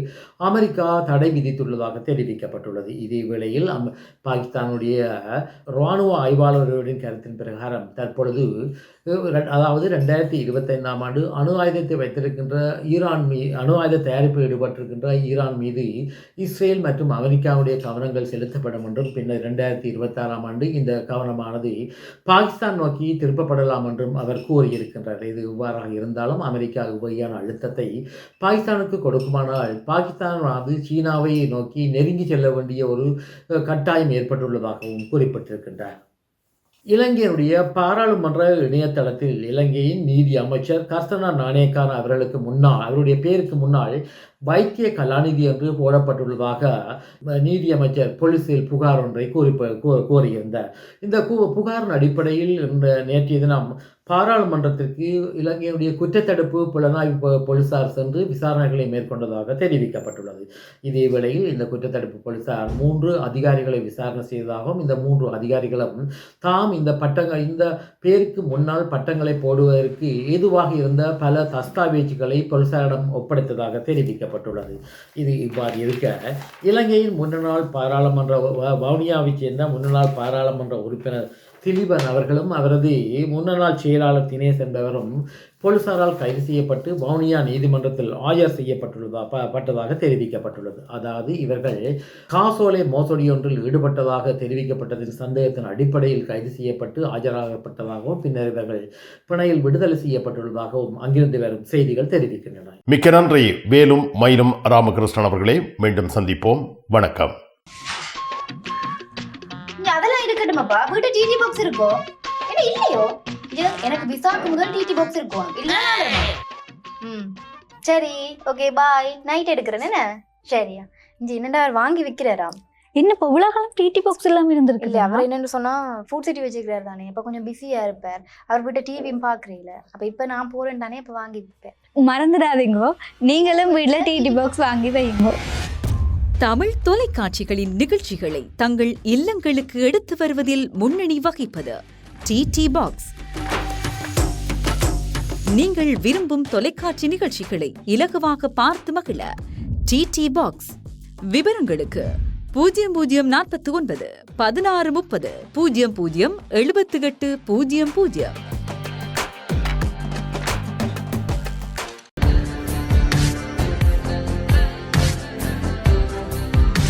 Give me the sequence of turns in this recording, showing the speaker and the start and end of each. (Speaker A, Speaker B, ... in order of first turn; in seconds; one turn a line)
Speaker A: 0.4-8.5
Speaker A: 9.1-15.9
Speaker A: 16.4-21.7
Speaker A: 22.3-27.9
Speaker A: 28.4-33.1
Speaker A: 33.6-36.0
Speaker A: 36.9-44.0
Speaker A: 44.5-46.7
Speaker A: 47.4-91.8
Speaker A: 92.3-102.8
Speaker B: 102.9-107.3
Speaker C: 109.8-116.3
Speaker C: 117.0-117.3
Speaker C: 117.8-122.6
Speaker D: 123.0-125.2
Speaker C: 124.8-131.7
Speaker D: 132.0-135.4
Speaker C: 133.3-134.6
Speaker E: 136.4-143.1
Speaker E: 145.5-149.3
Speaker E: 149.9-150.7
Speaker E: 151.3-158.3